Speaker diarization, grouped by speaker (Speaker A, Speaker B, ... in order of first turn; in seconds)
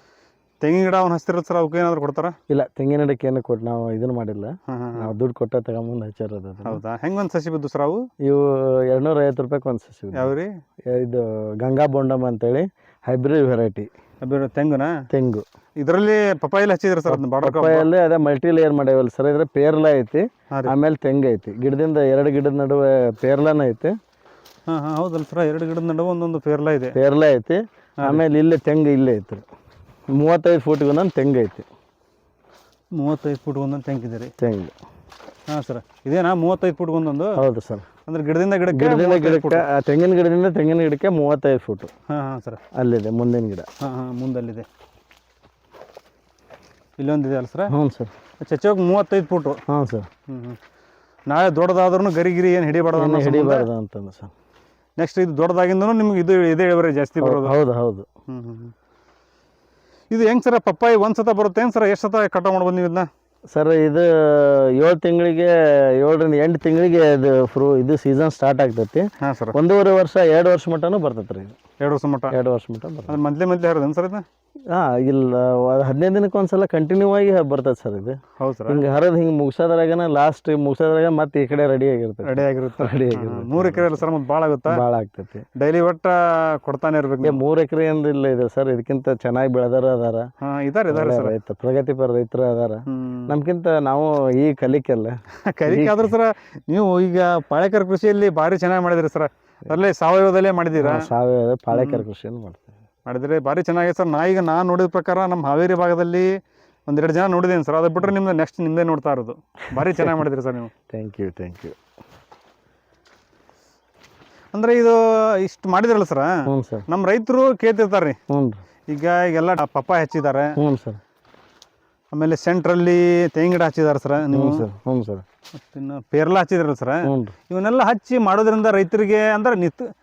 Speaker A: 0.6-2.3, 4.7-5.1, 6.6-8.0, 10.1-10.5, 14.2-14.9, 15.8-17.9, 24.7-26.9, 33.0-34.3, 35.5-37.4, 38.0-39.6, 42.1-42.6, 43.8-44.6, 47.0-47.7, 48.4-49.6, 50.3-50.6, 51.3-53.7, 55.0-57.5, 58.3-58.7, 60.1-63.1, 69.2-69.5, 71.8-72.3, 73.1-74.2, 78.4-78.8, 82.2-84.8, 85.5-87.4, 90.4-91.3, 92.9-93.3, 95.5-101.1, 101.7-102.0, 103.0-106.3, 106.9-110.7, 114.5-116.3, 116.9-118.2, 118.9-120.5, 122.1-124.7, 125.6-129.8
Speaker B: 2.5-6.8, 8.2-10.3, 10.9-13.9, 15.1-15.4, 17.1-23.9, 26.9-29.4, 30.2-31.6, 34.4-34.7, 37.4-37.9, 38.7-41.9, 42.8-43.7, 47.7-48.1, 49.7-50.1, 52.9-54.3, 57.2-58.0, 63.5-71.6, 72.3-73.2, 74.7-84.1, 84.7-85.5, 87.2-90.3, 90.9-96.1, 100.8-102.7, 109.8-110.1, 110.9-111.7, 116.5-116.8, 118.3-118.6, 120.6-121.0, 124.3-125.2, 127.0-127.3